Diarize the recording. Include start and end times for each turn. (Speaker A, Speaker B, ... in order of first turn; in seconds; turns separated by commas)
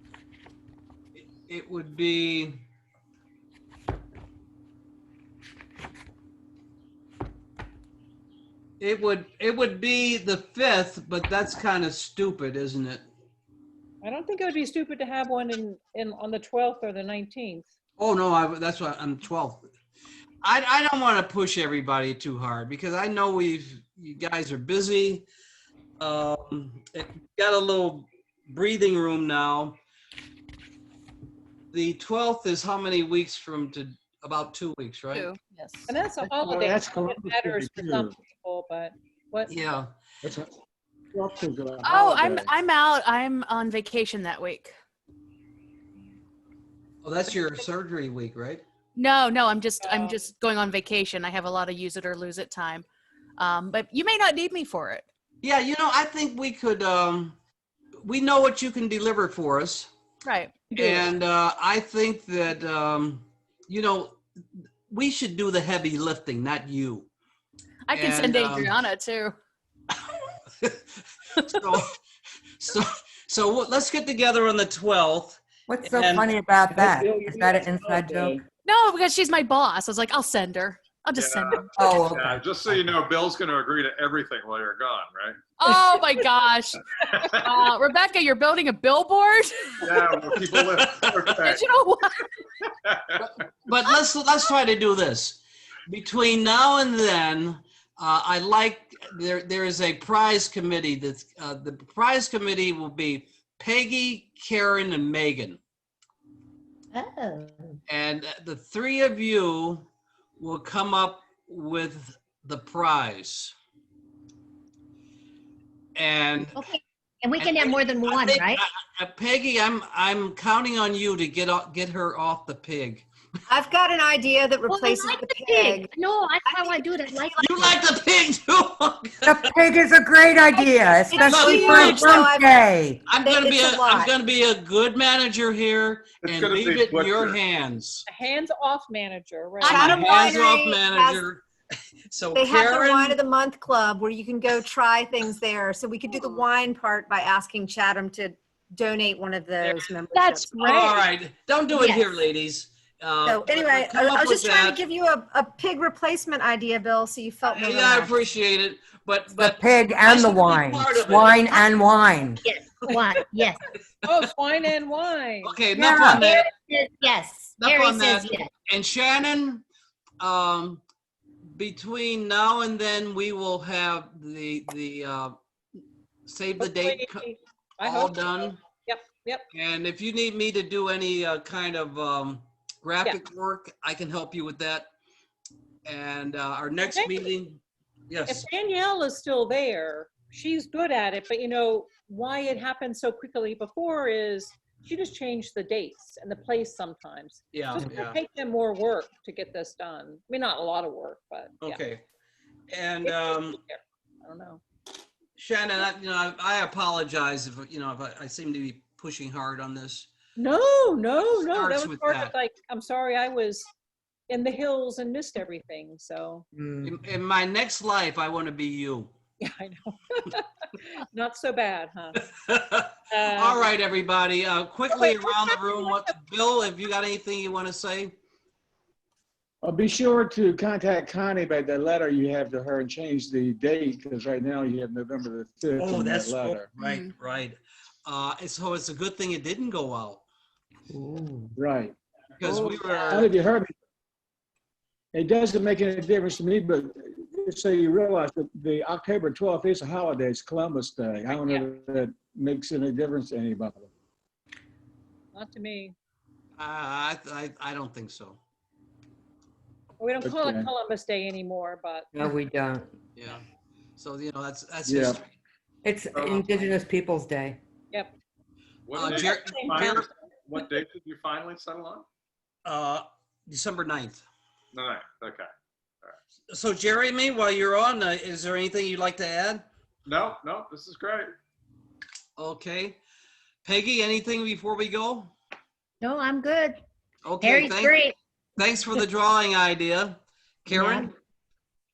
Speaker A: 1.2-2.6, Speaker A: 8.8-13.0, Speaker B: 14.0-17.7, Speaker A: 18.0-19.6, Speaker A: 20.4-25.3, Speaker A: 26.0-29.8, Speaker A: 31.7-35.3, Speaker C: 35.1-35.9, Speaker B: 35.7-39.5, Speaker D: 36.4-38.2, Speaker A: 39.5-39.9, Speaker D: 40.2-40.5, Speaker D: 41.1-42.5, Speaker C: 41.9-44.7, Speaker B: 41.9-43.0, Speaker B: 43.5-43.9, Speaker A: 47.0-48.6, Speaker C: 49.0-52.9, Speaker B: 49.6-50.3, Speaker C: 53.4-55.0, Speaker A: 55.4-57.4, Speaker A: 58.0-59.9, Speaker C: 60.3-61.0, Speaker A: 60.7-64.2, Speaker A: 64.9-67.1, Speaker C: 67.9-69.4, Speaker A: 67.9-68.8, Speaker A: 71.4-72.0, Speaker A: 72.6-76.3, Speaker E: 75.7-78.4, Speaker D: 76.7-78.4, Speaker C: 78.7-81.6, Speaker F: 81.2-85.8, Speaker E: 81.8-82.4, Speaker C: 85.6-89.7, Speaker F: 87.0-87.6, Speaker F: 89.8-91.6, Speaker A: 89.9-91.5, Speaker C: 91.5-92.3, Speaker F: 92.8-93.3, Speaker A: 93.2-105.6, Speaker G: 106.9-107.8, Speaker A: 107.9-109.9, Speaker A: 110.4-113.5, Speaker A: 116.0-116.6, Speaker G: 116.6-118.6, Speaker A: 117.4-123.1, Speaker H: 123.5-125.9, Speaker G: 124.7-127.8, Speaker H: 126.5-126.9, Speaker A: 127.4-129.5, Speaker E: 129.2-133.0, Speaker H: 130.6-132.7, Speaker A: 131.2-132.2, Speaker A: 133.1-138.1, Speaker H: 133.2-134.1, Speaker F: 136.2-137.4, Speaker B: 138.1-140.3, Speaker A: 139.6-141.4, Speaker H: 139.6-141.2, Speaker A: 142.1-143.2, Speaker H: 142.3-151.1, Speaker A: 149.6-149.9, Speaker B: 150.1-151.0, Speaker A: 150.6-154.8, Speaker H: 151.7-152.1, Speaker H: 153.2-158.2, Speaker A: 157.4-161.7, Speaker E: 159.4-162.4, Speaker G: 162.4-163.6, Speaker B: 164.0-165.6, Speaker A: 165.4-166.5, Speaker E: 165.7-166.2, Speaker G: 166.0-168.5, Speaker A: 167.6-169.6, Speaker A: 170.2-170.8, Speaker A: 171.5-175.4, Speaker A: 176.3-177.2, Speaker B: 176.6-179.4, Speaker A: 177.8-178.6, Speaker A: 179.5-184.9, Speaker A: 185.8-188.5, Speaker B: 186.9-187.3, Speaker B: 188.3-201.8, Speaker A: 197.5-198.2, Speaker A: 201.6-202.0, Speaker A: 202.7-203.6, Speaker B: 203.0-204.6, Speaker A: 205.4-210.1, Speaker B: 210.4-213.7, Speaker A: 211.4-212.3, Speaker B: 214.3-216.4, Speaker E: 216.6-217.0, Speaker A: 216.8-219.1, Speaker B: 219.4-222.2, Speaker A: 222.5-228.1, Speaker B: 223.1-223.7, Speaker B: 225.0-226.0, Speaker D: 229.6-236.7, Speaker A: 235.8-240.3, Speaker E: 240.9-241.6, Speaker D: 241.6-242.0, Speaker A: 242.4-243.3, Speaker E: 242.5-243.1, Speaker D: 243.1-243.7, Speaker D: 245.1-253.9, Speaker B: 255.3-255.9, Speaker A: 256.6-258.4, Speaker B: 260.0-262.1, Speaker D: 260.2-260.7, Speaker E: 262.1-262.9, Speaker A: 263.2-263.4, Speaker A: 264.0-265.3, Speaker D: 264.9-265.2, Speaker E: 265.8-267.6, Speaker F: 266.1-266.6, Speaker F: 268.9-272.1, Speaker A: 268.9-270.1, Speaker B: 269.1-270.0, Speaker A: 272.6-274.2, Speaker F: 274.7-275.5, Speaker A: 276.5-279.7, Speaker F: 280.1-281.3, Speaker A: 282.4-283.0, Speaker A: 283.6-285.3, Speaker G: 286.0-286.8, Speaker A: 287.2-288.0, Speaker G: 287.4-288.1, Speaker A: 288.6-291.1, Speaker G: 290.7-291.1